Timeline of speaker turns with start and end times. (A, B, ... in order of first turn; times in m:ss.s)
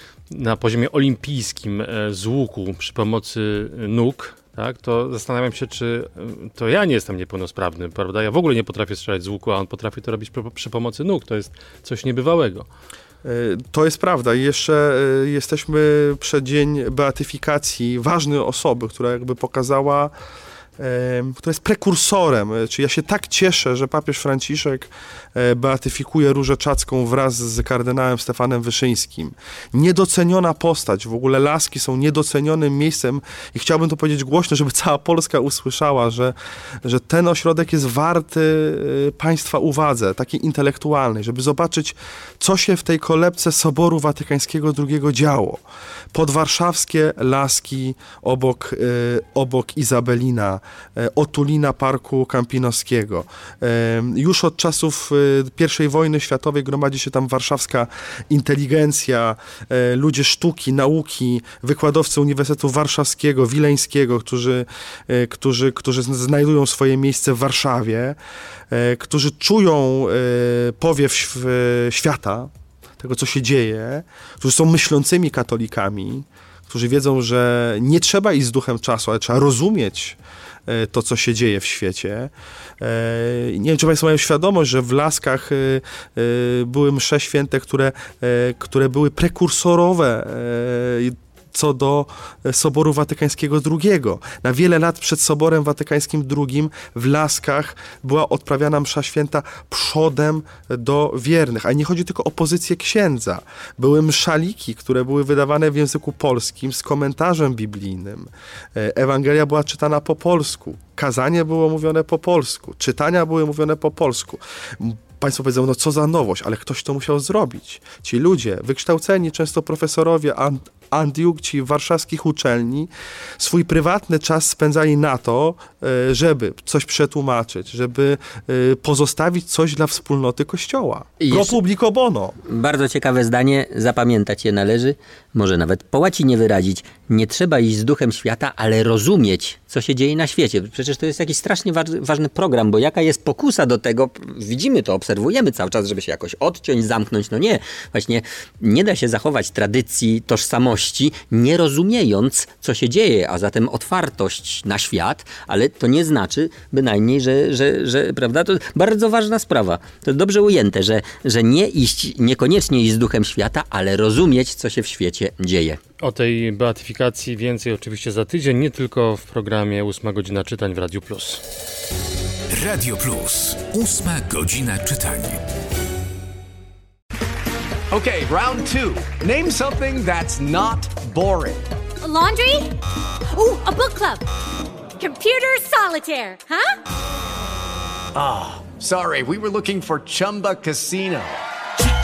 0:00.3-0:12.7 A
0:13.2-0:20.1 B
0:20.8-0:45.6 B
0:46.1-1:08.2 B
1:08.7-2:12.4 B
2:11.2-2:11.6 C
2:12.5-2:45.8 C
2:46.0-2:51.4 A
2:52.5-2:55.4 D
2:57.9-3:01.7 E
3:02.0-3:02.8 F
3:03.3-3:04.2 F
3:05.0-3:06.8 F
3:08.2-3:11.4 E